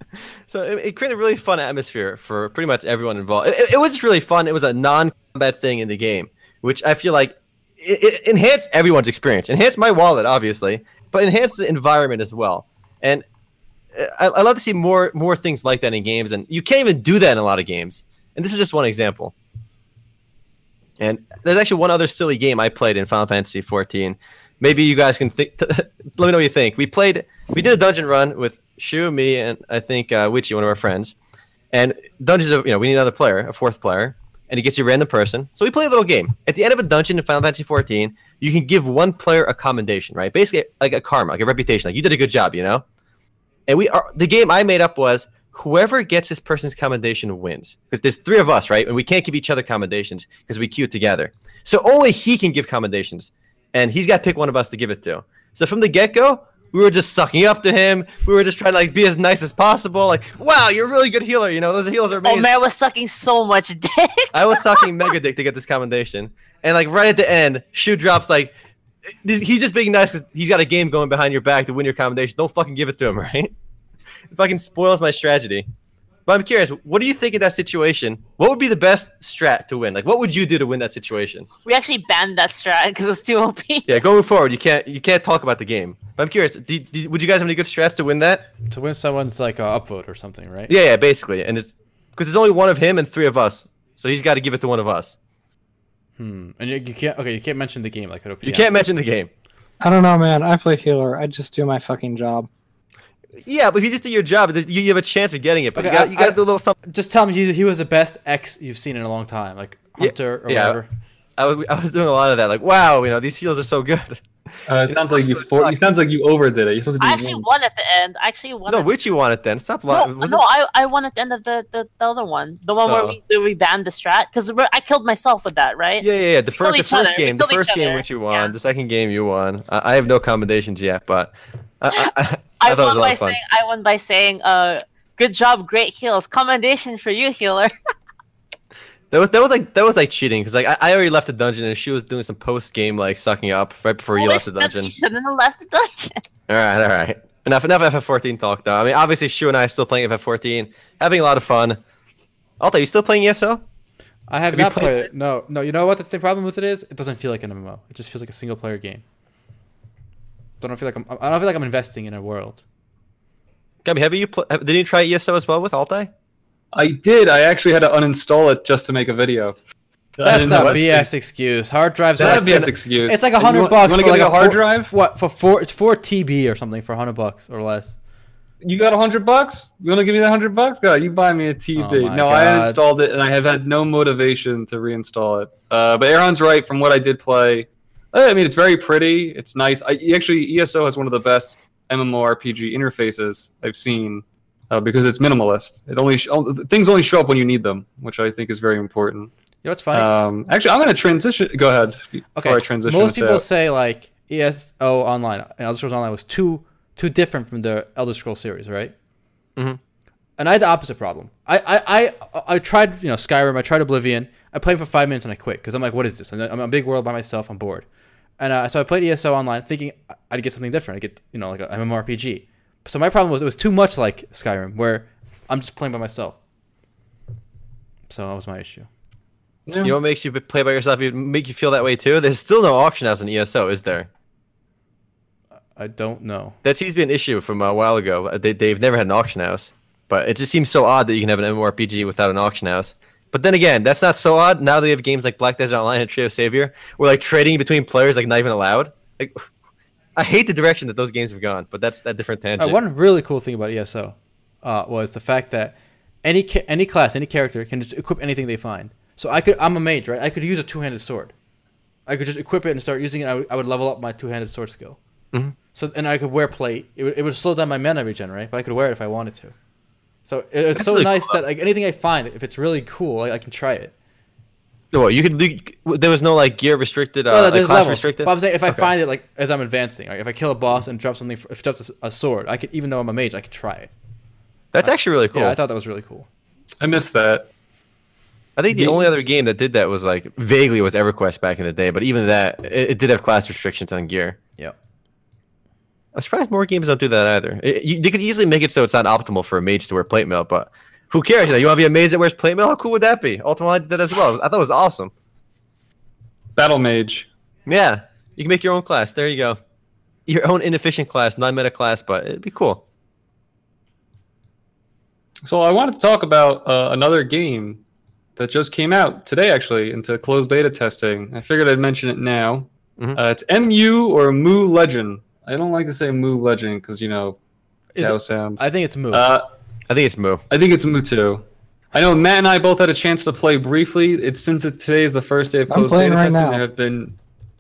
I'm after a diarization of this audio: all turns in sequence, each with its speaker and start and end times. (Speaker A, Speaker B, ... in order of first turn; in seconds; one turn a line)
Speaker A: 0.5-13.2
Speaker A: 13.9-19.3
Speaker A: 21.0-31.1
Speaker A: 31.7-42.8
Speaker A: 43.7-62.5
Speaker B: 62.2-64.9
Speaker A: 64.3-68.5
Speaker A: 69.1-73.5
Speaker A: 74.3-75.7
Speaker A: 76.3-81.5
Speaker B: 81.7-84.0
Speaker A: 83.9-88.5
Speaker C: 88.7-90.7
Speaker A: 90.7-95.2
Speaker C: 96.2-98.7
Speaker A: 98.4-99.3
Speaker D: 99.8-102.5
Speaker A: 103.4-106.8
Speaker C: 105.8-110.9
Speaker A: 110.0-110.8
Speaker A: 111.4-115.9
Speaker E: 114.7-117.5
Speaker B: 117.0-118.9
Speaker A: 118.7-120.4
Speaker B: 119.9-128.5
Speaker E: 122.9-123.2
Speaker A: 126.0-133.4
Speaker B: 131.9-137.7
Speaker A: 139.1-144.9
Speaker B: 144.2-146.2
Speaker A: 146.5-151.8
Speaker A: 152.6-153.6
Speaker C: 154.3-159.0
Speaker A: 154.5-155.1
Speaker C: 160.6-162.6
Speaker A: 163.8-166.1
Speaker E: 166.7-169.6
Speaker E: 170.2-171.1
Speaker C: 170.2-178.0
Speaker A: 170.4-170.7
Speaker E: 172.2-174.9
Speaker A: 172.3-172.7
Speaker E: 178.6-199.3
Speaker C: 181.8-182.8
Speaker C: 199.6-200.1
Speaker E: 199.9-203.4
Speaker C: 202.4-208.9
Speaker C: 210.4-217.9
Speaker C: 218.4-226.4
Speaker C: 228.1-228.9
Speaker E: 229.7-230.0
Speaker A: 229.8-234.1
Speaker C: 235.8-236.6
Speaker A: 236.6-249.4
Speaker A: 250.2-252.8
Speaker C: 252.6-261.3
Speaker C: 262.1-265.0
Speaker C: 265.7-269.6
Speaker C: 270.3-273.9
Speaker A: 270.8-271.3
Speaker A: 274.9-278.9
Speaker C: 277.3-283.9
Speaker A: 284.7-285.6
Speaker C: 284.8-286.3
Speaker E: 286.8-287.5
Speaker A: 288.6-294.4
Speaker E: 288.7-289.1
Speaker A: 296.1-305.1
Speaker E: 306.6-307.3
Speaker A: 307.7-309.6
Speaker A: 310.3-312.8
Speaker E: 315.4-317.8
Speaker E: 318.4-327.4
Speaker C: 327.9-329.3
Speaker E: 328.0-329.4
Speaker A: 329.9-330.4
Speaker E: 330.5-337.2
Speaker D: 335.7-336.6